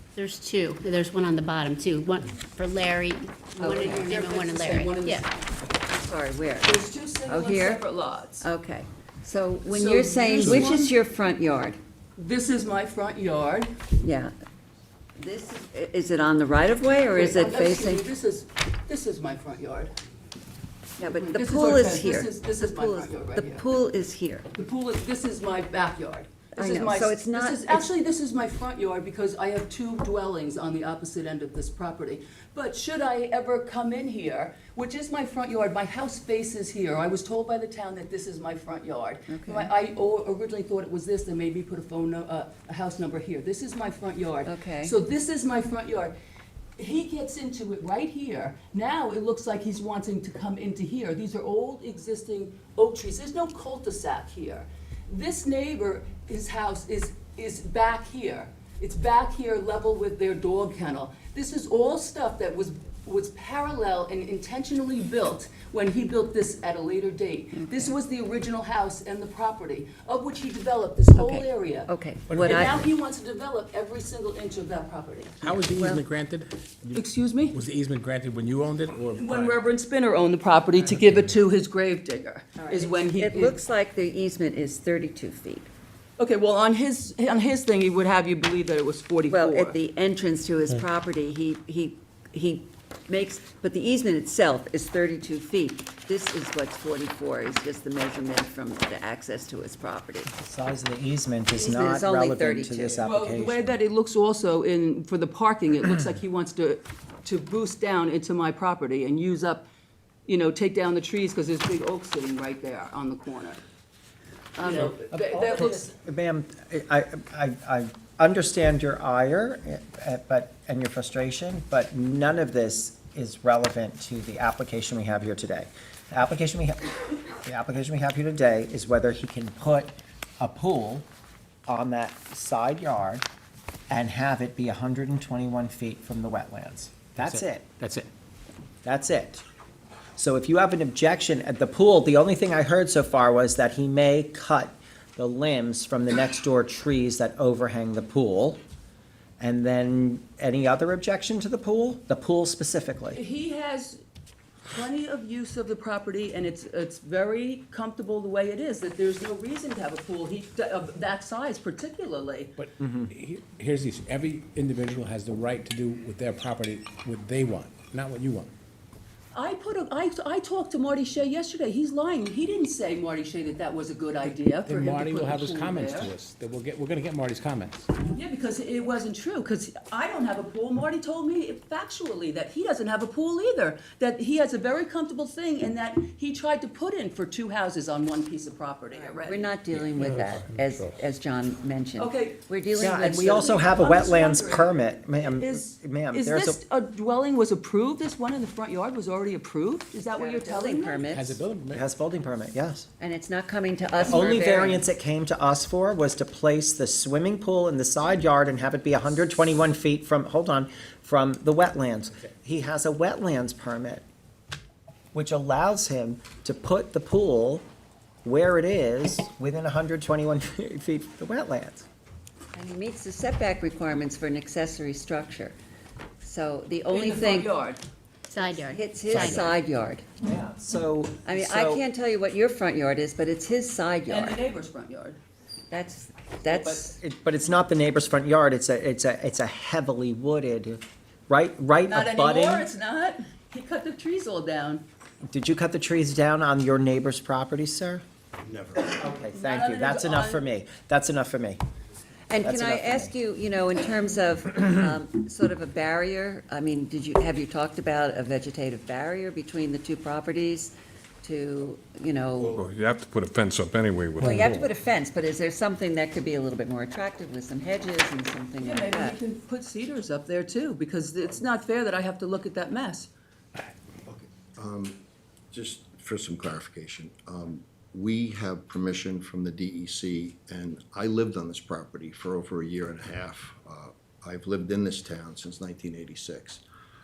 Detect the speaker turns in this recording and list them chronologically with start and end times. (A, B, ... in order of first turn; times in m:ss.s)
0:00.2-0:05.2 A
0:03.6-0:05.5 B
0:03.6-0:04.1 C
0:05.9-0:07.8 C
0:06.6-0:08.4 B
0:08.4-0:11.8 C
0:09.6-0:10.9 B
0:12.2-0:13.7 B
0:14.0-0:14.3 C
0:15.2-0:18.1 C
0:17.1-0:19.9 B
0:21.0-0:24.5 C
0:21.0-0:23.7 B
0:24.5-0:46.1 B
0:26.5-0:27.9 C
0:39.3-0:39.7 C
0:44.4-0:44.9 C
0:46.8-1:15.5 B
1:07.5-1:07.9 C
1:11.1-1:12.8 C
1:12.3-1:12.8 D
1:15.4-1:19.6 D
1:15.8-1:16.0 C
1:16.9-1:17.6 B
1:19.1-1:23.6 B
1:22.6-1:25.7 C
1:26.2-1:29.8 B
1:29.3-1:40.3 C
1:40.3-1:43.7 E
1:41.5-1:43.0 C
1:43.0-1:49.7 B
1:50.3-1:53.6 B
1:54.6-1:54.9 C
1:54.6-1:55.9 B
1:55.1-2:11.1 E
2:11.7-2:13.2 E
2:13.9-2:17.7 E
2:17.2-2:18.1 D
2:18.8-2:19.4 E
2:20.2-2:28.6 E
2:29.4-2:33.2 E
2:33.1-2:34.0 B
2:34.7-2:42.5 B
2:42.6-2:48.5 D
2:42.8-2:43.1 E
2:49.3-2:56.1 B
2:54.6-2:57.9 D
2:58.0-3:09.5 B
3:08.9-3:13.6 C
3:12.0-3:12.4 B
3:12.8-3:16.6 E
3:13.0-3:21.2 B
3:20.1-3:21.4 C
3:21.1-3:21.8 D
3:21.7-3:22.9 E
3:23.0-3:24.9 C
3:24.0-3:34.0 E
3:35.1-3:37.6 E
3:38.2-3:41.8 E
3:42.5-3:45.5 C
3:46.2-3:47.5 C
3:46.9-3:47.8 B
3:48.3-3:49.4 A
3:48.5-3:50.0 C
3:49.1-3:49.5 D
3:50.2-3:51.8 E
3:51.2-3:54.4 C
3:54.1-3:55.2 B
3:55.7-3:57.0 C
3:56.5-3:56.9 B
3:56.9-4:02.7 E
4:01.9-4:04.8 B
4:05.2-4:08.0 E
4:08.4-4:08.9 F
4:08.8-4:11.6 E
4:09.3-4:10.4 B
4:12.3-4:22.6 C
4:12.4-4:13.1 E
4:22.5-4:24.4 G
4:24.2-4:29.2 C
4:24.2-4:24.6 D
4:28.6-4:33.1 B
4:34.0-4:35.0 F
4:35.5-4:46.6 F